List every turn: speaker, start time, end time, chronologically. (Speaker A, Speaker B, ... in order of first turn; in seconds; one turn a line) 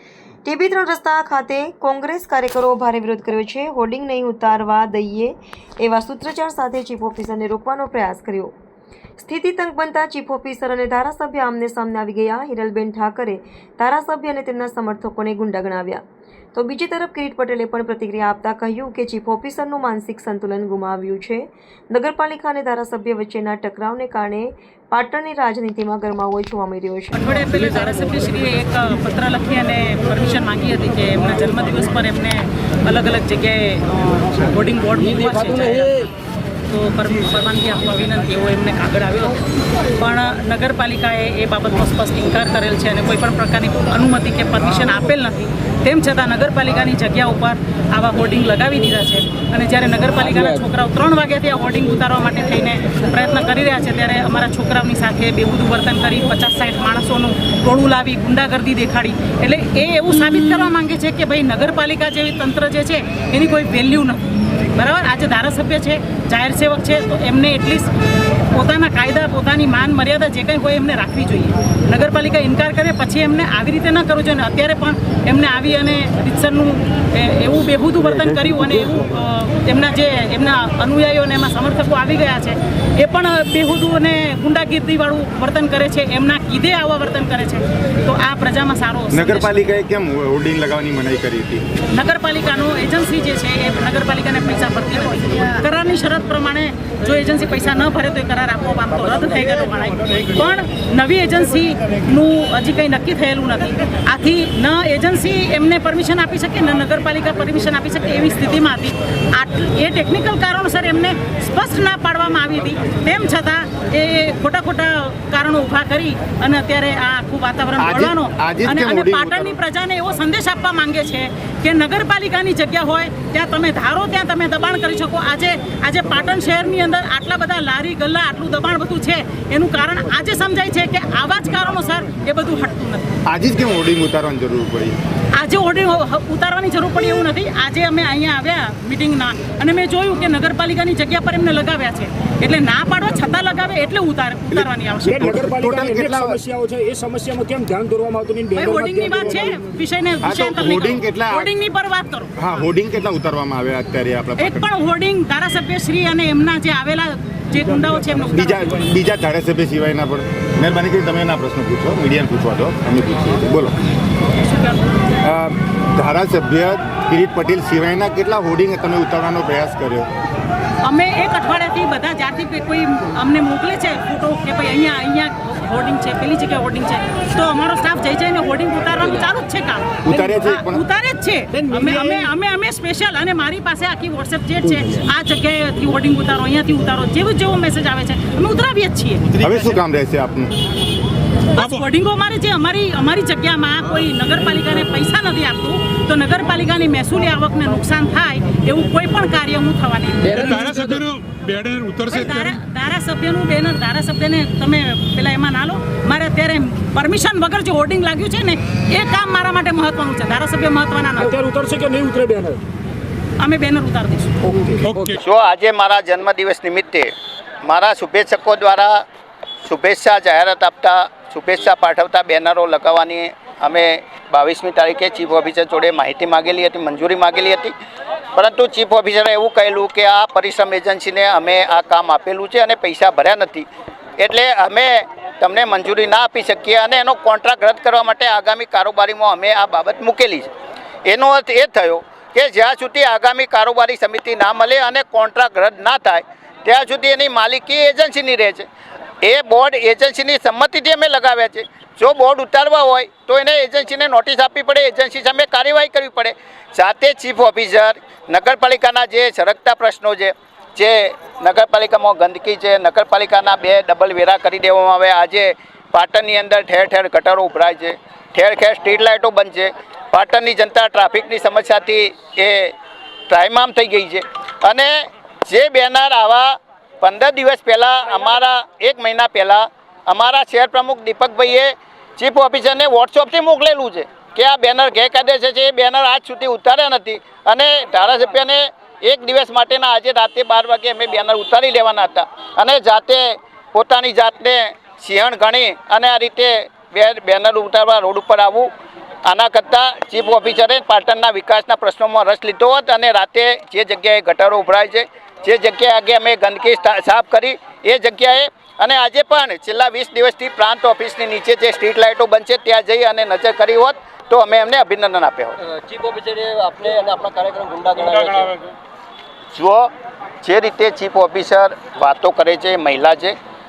Speaker A: 0.5-8.5
Speaker A: 9.2-16.0
Speaker A: 16.5-27.3
Speaker B: 27.1-36.1
Speaker B: 36.7-67.9
Speaker B: 68.5-89.5
Speaker C: 78.4-78.7
Speaker C: 89.1-91.6
Speaker B: 91.9-133.2
Speaker C: 117.8-119.5
Speaker C: 133.3-134.9
Speaker B: 135.3-145.3
Speaker C: 144.5-146.4
Speaker D: 145.1-149.7
Speaker B: 148.6-152.3
Speaker C: 150.2-151.5
Speaker C: 152.4-154.7
Speaker B: 154.4-158.5
Speaker C: 158.3-163.8
Speaker B: 164.3-165.2
Speaker C: 165.2-170.1
Speaker B: 170.8-189.3
Speaker C: 180.1-180.8
Speaker E: 189.4-189.6
Speaker C: 189.4-190.5
Speaker B: 191.5-200.8
Speaker E: 191.6-191.8
Speaker E: 200.4-202.6
Speaker B: 202.1-211.3
Speaker D: 211.2-212.6
Speaker B: 213.4-214.3
Speaker D: 214.4-215.2
Speaker E: 214.8-215.2
Speaker F: 215.2-217.1
Speaker F: 217.6-219.0
Speaker F: 219.6-227.7
Speaker F: 228.3-233.7
Speaker F: 234.2-240.5
Speaker F: 241.1-248.7
Speaker F: 249.2-272.7
Speaker F: 273.3-274.9
Speaker F: 275.4-298.7
Speaker F: 299.2-315.6
Speaker G: 315.6-318.6
Speaker E: 318.2-318.5
Speaker F: 319.5-319.9
Speaker F: 320.4-323.4